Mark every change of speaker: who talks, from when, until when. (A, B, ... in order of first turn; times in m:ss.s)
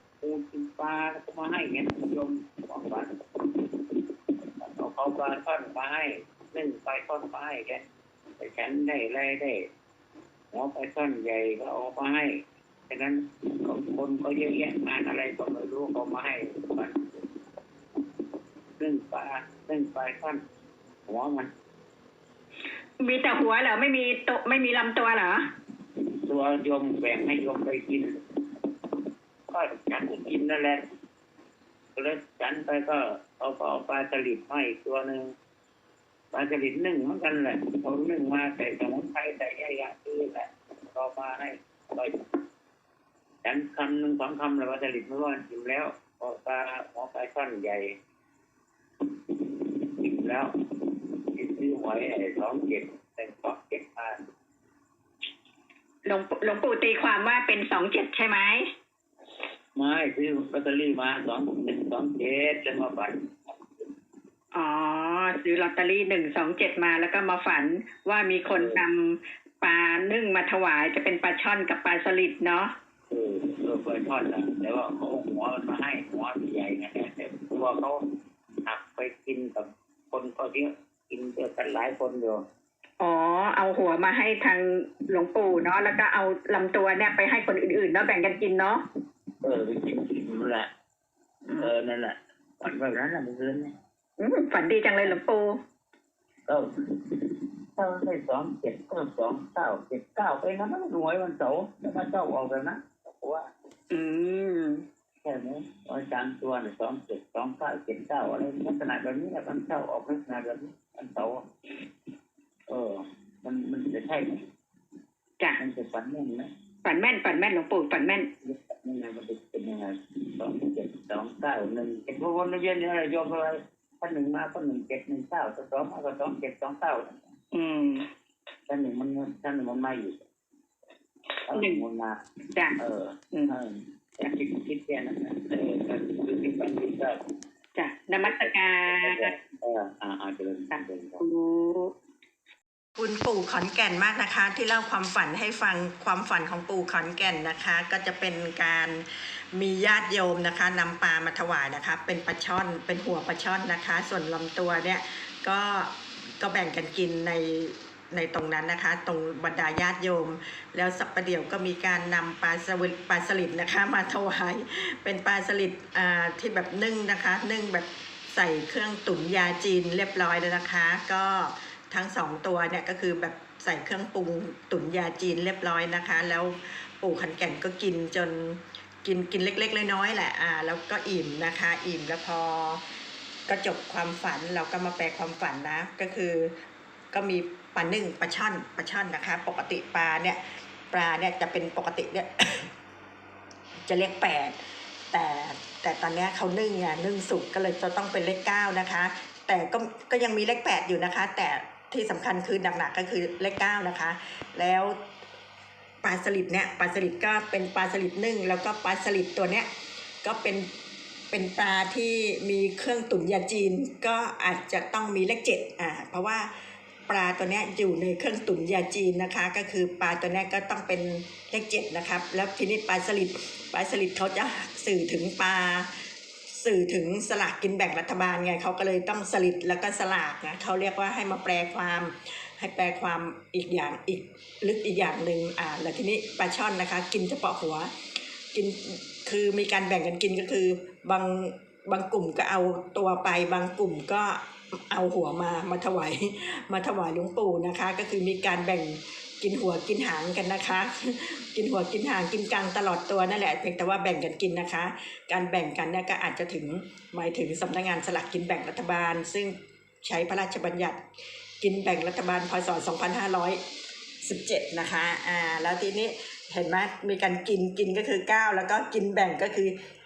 0:00.2-0:03.1 A
0:04.6-0:07.8 A
0:08.4-0:09.6 A
0:10.5-0:12.4 A
0:12.9-0:17.1 A
0:18.8-0:20.4 A
0:21.1-0:21.5 A
0:23.0-0:25.5 B
0:26.2-0:28.2 A
0:29.5-0:30.8 A
0:32.0-0:35.3 A
0:36.3-0:42.2 A
0:43.4-0:48.0 A
0:50.0-0:50.5 A
0:51.3-0:54.2 A
0:56.0-0:58.7 B
0:59.8-1:03.8 A
1:04.5-1:12.7 B
1:08.5-1:08.8 A
1:13.1-1:18.0 A
1:18.6-1:22.4 A
1:23.0-1:28.8 B
1:29.4-1:30.7 A
1:31.4-1:31.7 B
1:31.6-1:33.7 A
1:34.2-1:35.6 B
1:36.4-1:43.5 A
1:43.9-1:44.8 B
1:45.2-1:51.4 A
1:52.7-1:54.4 A
1:55.6-1:56.5 A
1:56.8-1:58.3 B
1:58.4-2:07.2 A
2:07.5-2:08.1 B
2:08.7-2:10.2 A
2:11.5-2:12.2 A
2:11.5-2:11.8 B
2:12.8-2:17.2 A
2:17.7-2:19.3 B
2:18.1-2:21.2 A
2:21.2-2:21.9 B
2:23.0-3:02.8 C
3:03.5-3:06.5 C
3:07.1-3:12.7 C
3:13.9-3:14.6 C
3:15.1-3:24.9 C
3:26.0-3:29.7 C
3:30.2-3:30.7 C
3:31.3-3:36.5 C
3:37.1-3:45.9 C
3:46.5-3:57.9 C
3:58.5-4:21.0 C
4:21.6-4:23.6 C
4:24.2-4:29.7 C